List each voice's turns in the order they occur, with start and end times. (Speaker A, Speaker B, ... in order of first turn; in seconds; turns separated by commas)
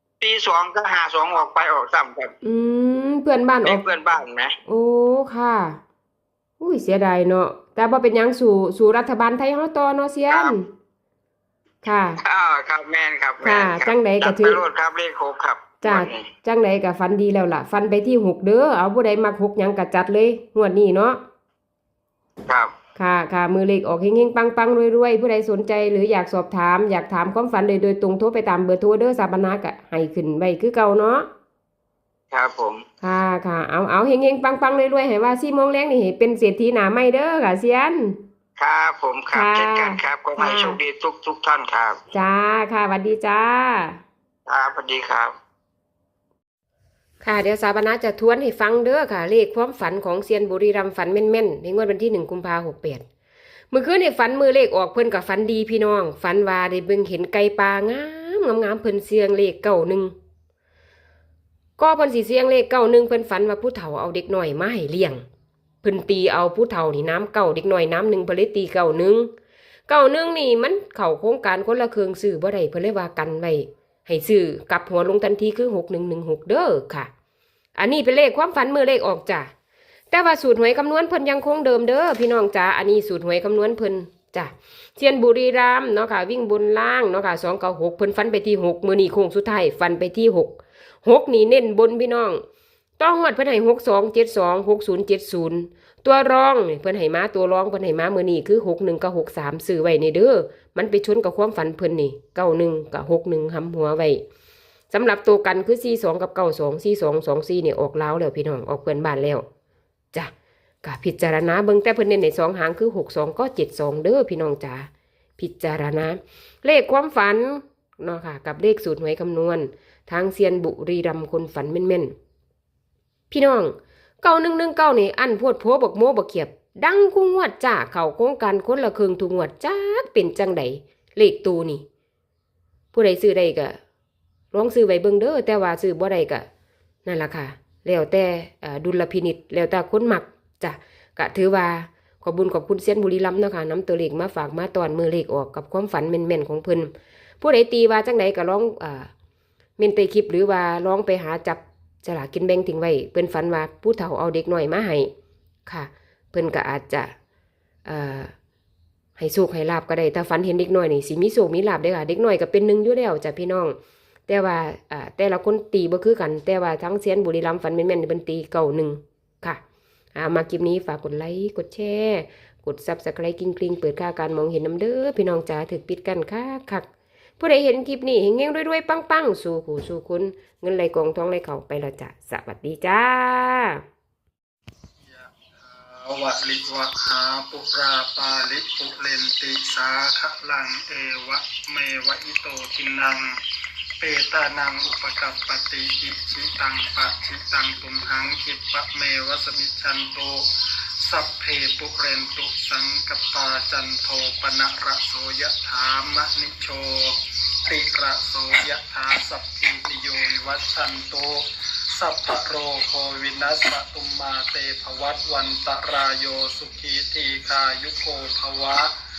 Speaker A: 0.2-2.3, Speaker B: 2.4-3.8, Speaker A: 3.6-4.5, Speaker B: 4.7-5.8, Speaker B: 6.6-10.7, Speaker A: 10.3-10.6, Speaker B: 11.8-12.2, Speaker A: 12.2-16.3, Speaker B: 13.4-14.6, Speaker B: 15.8-21.2, Speaker B: 23.0-31.3, Speaker A: 32.3-32.8, Speaker B: 33.0-38.2, Speaker A: 38.6-42.0, Speaker B: 39.3-40.8, Speaker B: 42.1-44.0, Speaker A: 44.5-45.4, Speaker B: 47.2-53.0, Speaker B: 53.7-60.1, Speaker B: 61.8-65.2, Speaker B: 65.8-69.3, Speaker B: 69.9-77.1, Speaker B: 77.8-79.5, Speaker B: 80.1-92.4, Speaker B: 93.0-104.2, Speaker B: 104.9-109.5, Speaker B: 110.8-122.1, Speaker B: 123.3-131.8, Speaker B: 132.9-133.8, Speaker B: 134.5-136.5, Speaker B: 137.1-149.1, Speaker B: 149.8-155.1, Speaker B: 155.7-157.1, Speaker B: 157.9-158.3, Speaker B: 159.2-163.8, Speaker B: 164.3-169.6, Speaker B: 170.2-176.9, Speaker B: 177.4-183.8, Speaker C: 185.0-193.3, Speaker C: 194.0-200.5, Speaker C: 201.0-207.2, Speaker C: 207.7-218.9